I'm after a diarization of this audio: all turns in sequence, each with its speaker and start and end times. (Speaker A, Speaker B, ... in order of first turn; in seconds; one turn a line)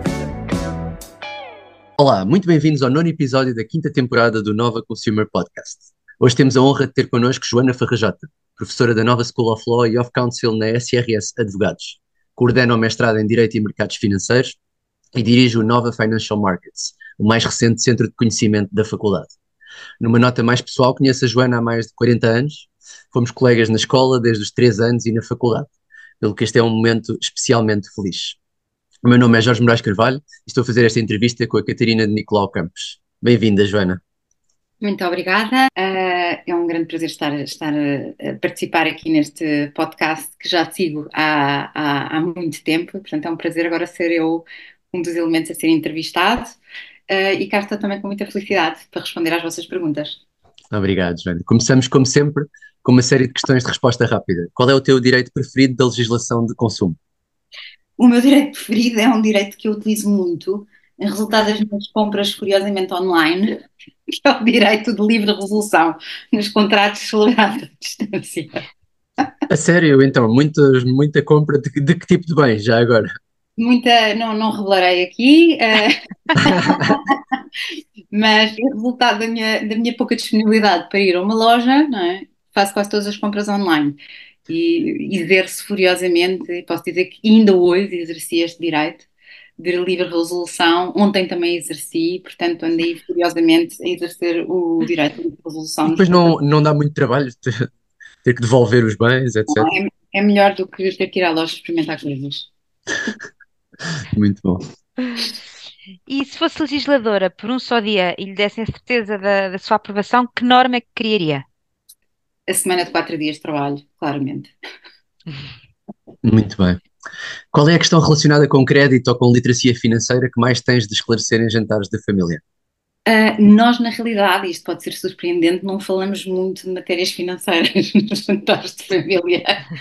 Speaker A: 2.0-14.6
Speaker A: 15.1-19.3
Speaker A: 20.0-25.7
Speaker A: 26.2-28.4
Speaker A: 29.0-34.0
Speaker B: 34.8-46.6
Speaker B: 47.1-50.2
Speaker A: 50.7-57.0
Speaker B: 58.0-63.6
Speaker B: 64.1-68.6
Speaker A: 69.5-73.1
Speaker B: 73.6-77.3
Speaker A: 76.4-77.0
Speaker B: 78.1-89.1
Speaker B: 89.6-96.3
Speaker A: 95.8-97.7
Speaker A: 98.2-99.7
Speaker B: 99.5-102.5
Speaker A: 104.0-104.6
Speaker C: 106.1-111.4
Speaker B: 112.5-114.5
Speaker A: 116.2-116.8
Speaker A: 117.5-122.4
Speaker B: 123.0-129.6